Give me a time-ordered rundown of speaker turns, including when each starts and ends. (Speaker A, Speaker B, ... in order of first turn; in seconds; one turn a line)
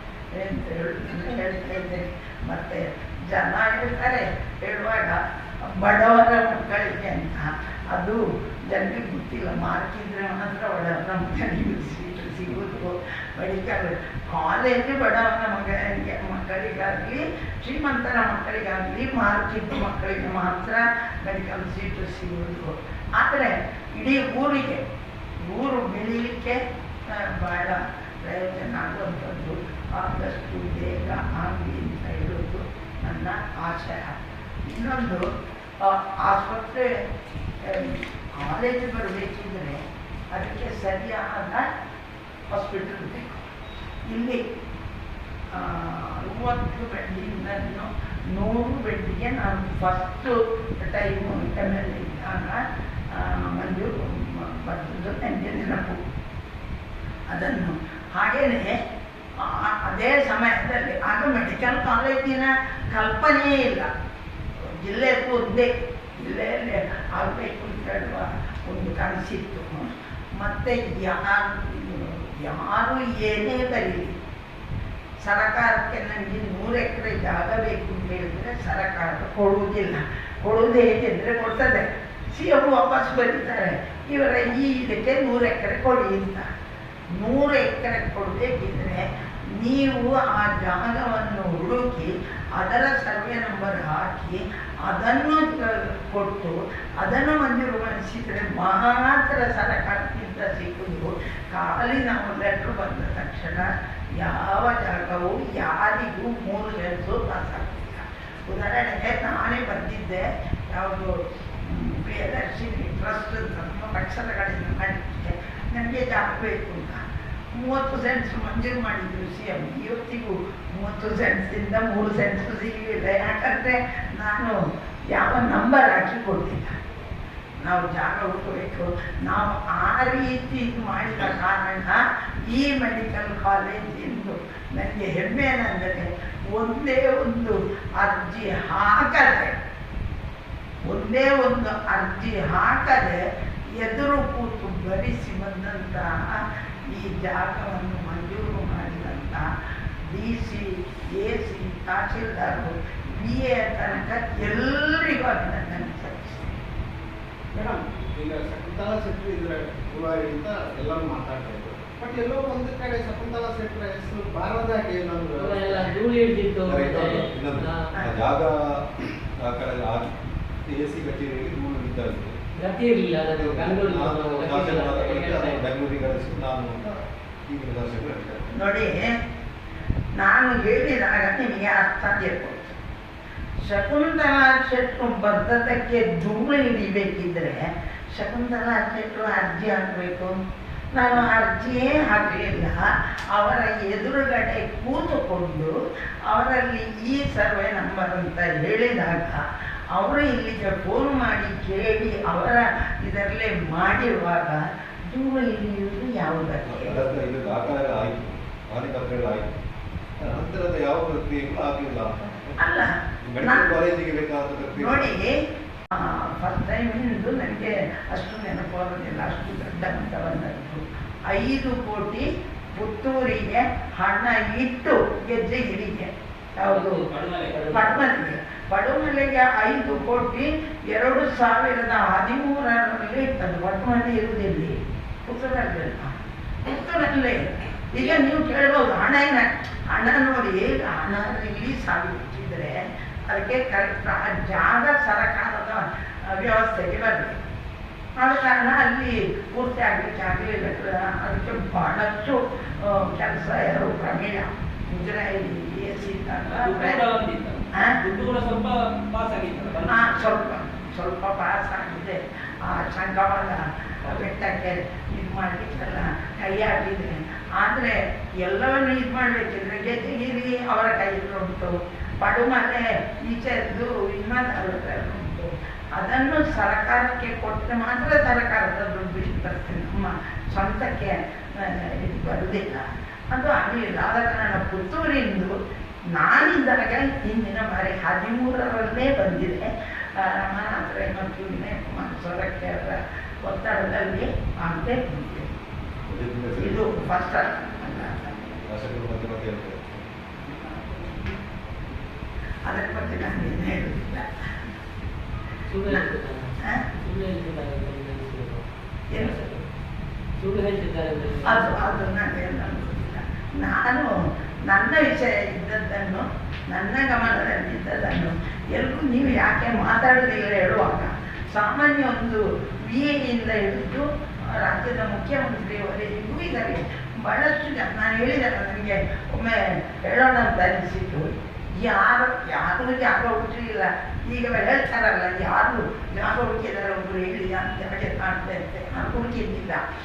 Speaker A: 0.3-24.8
Speaker A: 25.4-35.2
Speaker A: 35.8-36.9
Speaker A: 37.6-41.6
Speaker A: 42.5-43.5
Speaker A: 44.1-44.4
Speaker A: 45.5-52.6
Speaker A: 53.1-56.0
Speaker A: 57.3-58.8
Speaker A: 59.4-63.9
Speaker A: 64.8-74.1
Speaker A: 75.2-86.5
Speaker A: 87.1-126.7
Speaker A: 127.6-139.5
Speaker A: 140.8-143.2
Speaker A: 143.7-149.5
Speaker A: 150.1-156.6
Speaker B: 157.5-165.9
Speaker C: 165.3-167.9
Speaker D: 166.6-168.8
Speaker D: 169.4-170.1
Speaker D: 170.7-172.4
Speaker C: 172.6-175.6
Speaker D: 173.2-178.6
Speaker A: 178.5-179.1
Speaker A: 180.2-182.8
Speaker A: 183.6-190.3
Speaker A: 190.9-192.8
Speaker A: 193.3-195.7
Speaker A: 196.3-199.4
Speaker A: 199.9-207.0
Speaker D: 206.7-209.6
Speaker D: 210.2-212.6
Speaker A: 212.6-212.9
Speaker D: 213.2-215.1
Speaker A: 213.4-213.7
Speaker A: 214.8-215.3
Speaker A: 215.9-227.0
Speaker C: 226.7-228.1
Speaker E: 227.1-227.6
Speaker A: 227.7-236.1
Speaker A: 236.6-247.4
Speaker A: 248.2-257.0
Speaker E: 256.5-260.1
Speaker A: 259.9-285.5
Speaker A: 286.1-295.5
Speaker D: 296.1-297.1
Speaker A: 296.6-298.6
Speaker D: 298.6-300.1
Speaker A: 300.4-301.4
Speaker A: 302.6-304.2
Speaker C: 305.6-309.6
Speaker C: 310.4-311.8
Speaker A: 311.4-314.1
Speaker A: 314.6-339.8